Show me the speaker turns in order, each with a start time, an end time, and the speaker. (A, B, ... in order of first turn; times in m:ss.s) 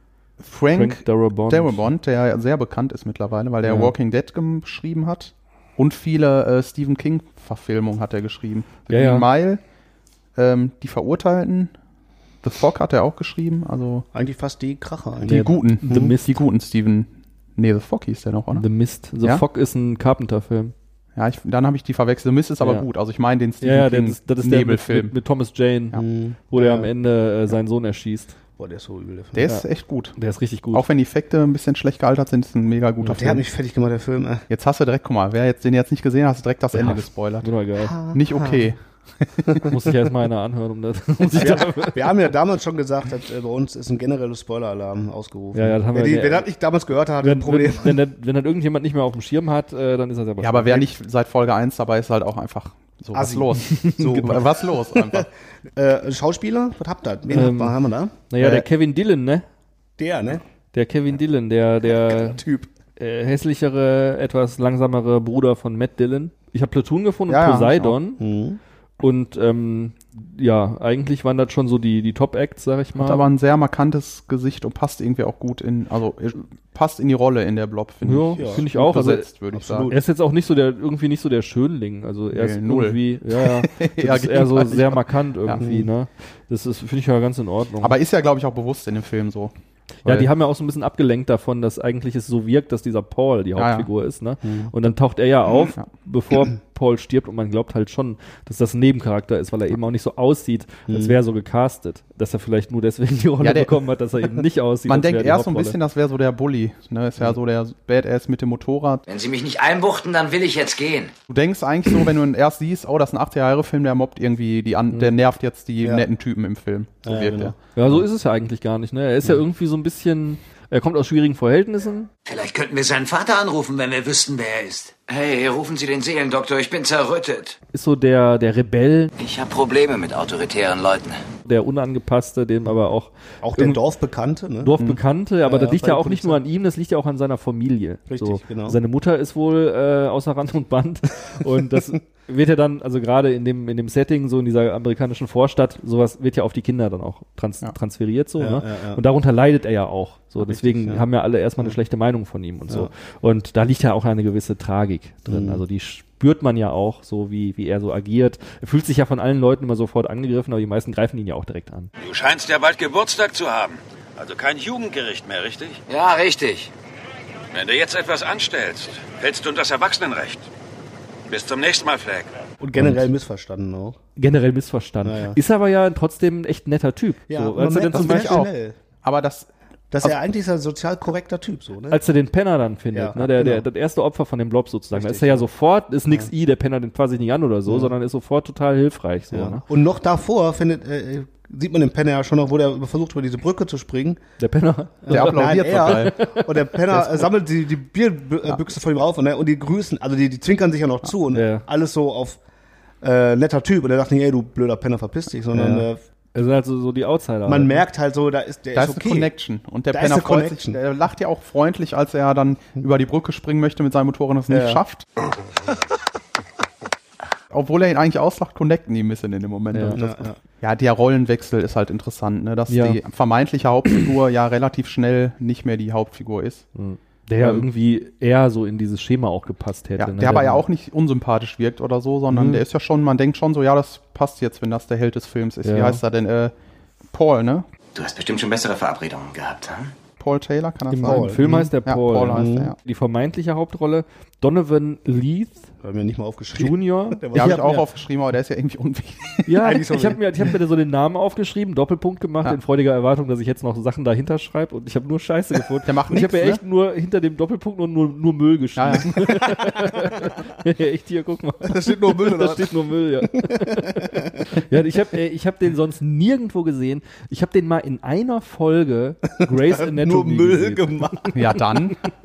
0:00.4-0:09.6 A
0:00.7-0:01.8 B
0:03.6-0:03.9 B
0:08.9-0:09.3 B
0:10.3-0:11.7 A
0:12.4-0:14.0 A
0:14.1-0:16.1 C
0:15.2-0:16.4 B
0:15.3-0:18.6 A
0:18.5-0:20.7 B
0:21.2-0:25.1 A
0:22.6-0:22.8 B
0:23.6-0:28.4 B
0:26.0-0:26.9 C
0:28.6-0:29.4 C
0:29.3-0:30.2 A
0:29.4-0:30.8 B
0:30.7-0:33.4 A
0:33.1-0:34.4 C
0:34.5-0:37.5 A
0:36.7-0:38.0 B
0:37.8-0:38.6 C
0:38.1-0:39.7 A
0:39.7-0:42.1 B
0:41.3-0:48.0 C
0:45.5-0:46.5 B
0:47.2-0:50.9 B
0:50.4-0:55.3 A
0:53.1-0:58.1 C
0:53.7-0:54.3 B
0:57.3-0:59.4 B
0:58.4-0:58.6 A
1:00.0-1:00.4 C
1:00.7-1:02.4 B
1:01.8-1:02.7 C
1:03.0-1:08.2 B
1:07.3-1:08.0 A
1:08.2-1:08.6 C
1:09.0-1:13.2 B
1:13.0-1:19.9 A
1:18.0-1:19.3 B
1:18.4-1:18.7 C
1:19.5-1:20.0 C
1:19.9-1:28.0 B
1:22.3-1:25.6 A
1:25.6-1:25.9 C
1:27.8-1:29.5 A
1:30.0-1:30.3 A
1:30.0-1:45.8 B
1:33.6-1:33.9 A
1:34.4-1:34.7 C
1:40.9-1:41.2 C
1:43.4-1:43.7 A
1:44.8-1:49.0 A
1:49.0-1:51.1 D
1:51.3-1:57.5 A
1:57.0-1:57.5 C
1:57.7-2:02.1 B
2:02.2-2:07.6 D
2:07.7-2:09.1 B
2:09.2-2:11.2 D
2:11.4-2:13.8 B
2:13.4-2:14.7 C
2:14.6-2:41.9 B
2:15.4-2:16.4 C
2:18.1-2:18.8 C
2:28.4-2:29.0 C
2:30.4-2:31.0 C
2:35.3-2:35.6 C
2:42.0-2:45.8 E
2:45.9-2:46.7 D
2:47.5-2:50.5 E
2:51.3-2:52.4 E
2:52.6-2:54.0 C
2:52.8-2:53.0 B
2:54.2-2:58.4 B
2:55.0-2:55.4 C
2:57.3-2:58.8 C
2:57.9-2:58.5 A
2:59.0-2:59.5 A
2:59.9-3:02.0 C
3:01.9-3:09.6 B
3:02.9-3:03.6 C
3:04.9-3:05.4 C
3:07.7-3:07.9 C
3:09.3-3:14.2 C
3:14.4-3:17.2 B
3:15.0-3:22.4 C
3:15.1-3:16.2 A
3:21.3-3:21.6 B
3:23.0-3:26.0 C
3:25.5-3:27.8 B
3:27.4-3:29.3 C
3:28.7-3:35.0 A
3:29.9-3:30.8 C
3:34.5-3:34.8 C
3:37.5-3:46.6 A
3:39.7-3:40.0 B
3:40.0-3:40.3 C
3:42.7-3:43.0 B
3:46.7-3:50.6 B
3:47.4-3:47.7 A
3:50.0-3:56.5 A
3:52.3-3:52.6 B
3:55.6-3:56.0 B
3:57.1-3:57.6 A
3:58.0-3:59.9 D
4:00.2-4:02.8 A
4:00.9-4:05.7 B
4:01.0-4:01.7 C
4:02.2-4:02.7 C
4:05.8-4:07.8 C
4:06.5-4:07.2 B
4:07.3-4:09.5 A
4:09.4-4:31.3 B
4:09.6-4:10.5 C
4:15.8-4:16.6 A
4:18.8-4:19.2 A
4:21.6-4:22.7 C
4:23.3-4:24.4 C
4:29.4-4:31.6 C
4:31.3-4:32.0 A